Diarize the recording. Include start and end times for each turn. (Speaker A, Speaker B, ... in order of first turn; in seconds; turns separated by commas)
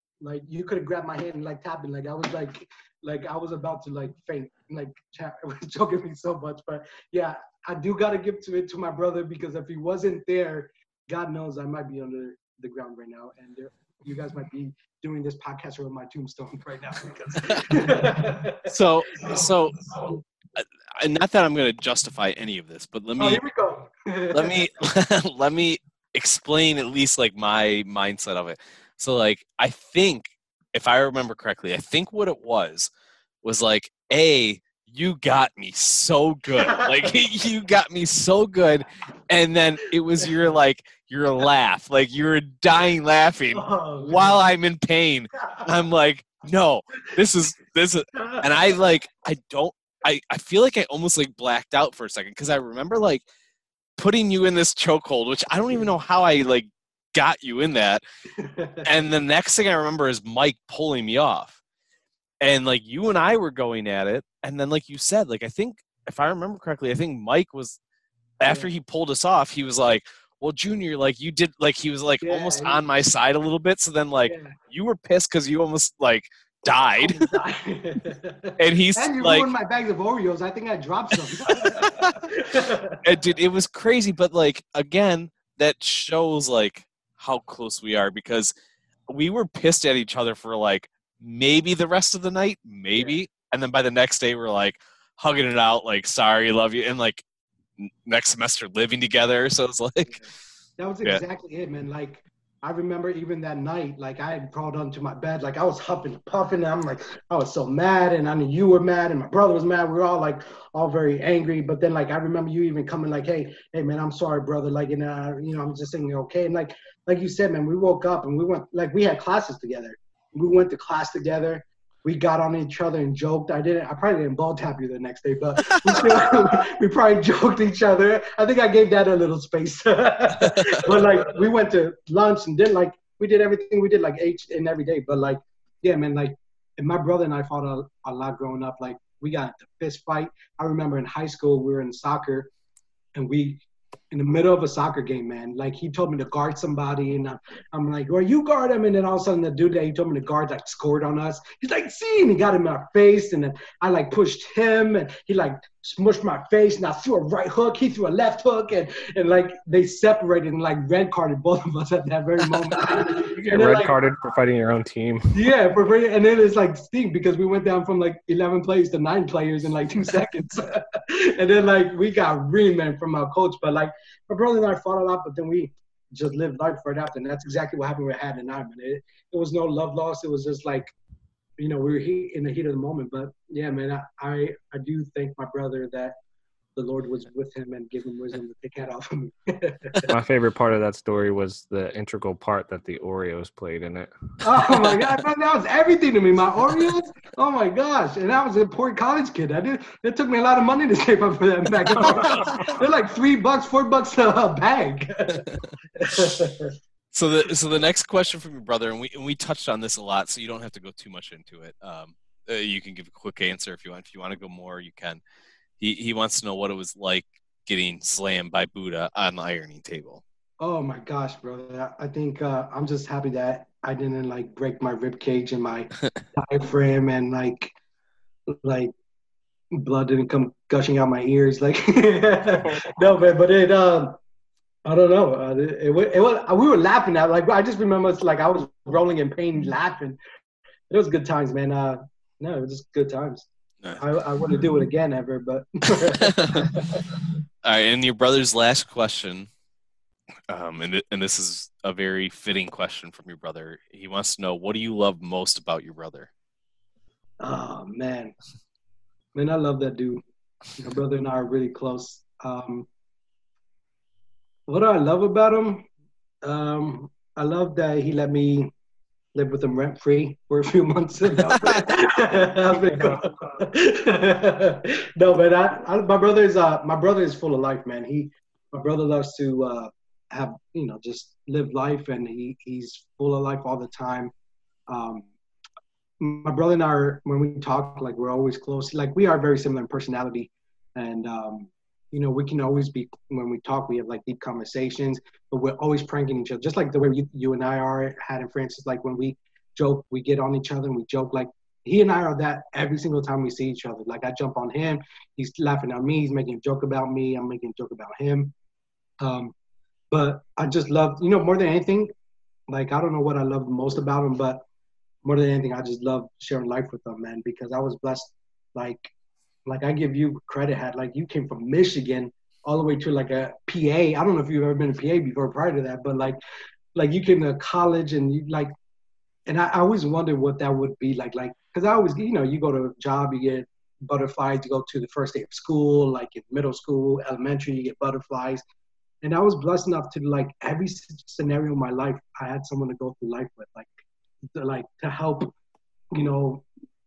Speaker A: 0.2-18.7, Speaker B: 18.7-19.8, Speaker A: 19.2-19.4, Speaker B: 20.6-23.4, Speaker A: 23.2-24.6, Speaker B: 24.3-32.9, Speaker B: 33.4-53.2, Speaker A: 36.6-37.0, Speaker A: 43.5-44.4, Speaker A: 48.2-48.4, Speaker B: 54.0-58.0, Speaker A: 58.4-58.9, Speaker B: 58.8-61.6, Speaker B: 62.4-67.8, Speaker B: 68.4-77.2, Speaker A: 68.4-68.7, Speaker A: 72.2-72.8, Speaker A: 74.3-74.5, Speaker A: 77.0-83.0, Speaker B: 78.6-79.5, Speaker B: 81.5-82.2, Speaker B: 83.0-88.5, Speaker B: 89.1-97.2, Speaker A: 92.9-93.2, Speaker B: 97.8-100.2, Speaker A: 100.8-142.5, Speaker A: 143.1-163.9, Speaker C: 163.0-165.4, Speaker A: 165.3-180.9, Speaker A: 181.6-186.2, Speaker A: 186.8-190.1, Speaker C: 190.1-194.1, Speaker A: 194.4-206.7, Speaker B: 202.0-202.4, Speaker B: 207.1-215.2, Speaker B: 215.8-220.2, Speaker A: 220.6-227.7, Speaker A: 228.5-228.9, Speaker A: 229.7-234.2, Speaker A: 234.8-240.2, Speaker A: 240.9-247.1, Speaker B: 246.3-246.7, Speaker B: 247.6-249.5, Speaker B: 250.5-256.3, Speaker A: 257.4-258.3, Speaker A: 259.3-260.2, Speaker A: 260.8-262.9, Speaker A: 264.7-265.9, Speaker A: 266.4-268.7, Speaker A: 269.3-284.3, Speaker A: 284.9-285.3, Speaker A: 286.2-308.5, Speaker A: 309.2-309.5, Speaker A: 310.1-312.1, Speaker A: 312.7-314.6, Speaker A: 315.2-319.1, Speaker A: 319.6-326.4, Speaker A: 326.9-328.7, Speaker A: 329.5-338.6, Speaker A: 339.2-343.9, Speaker A: 344.5-345.5, Speaker A: 346.1-346.6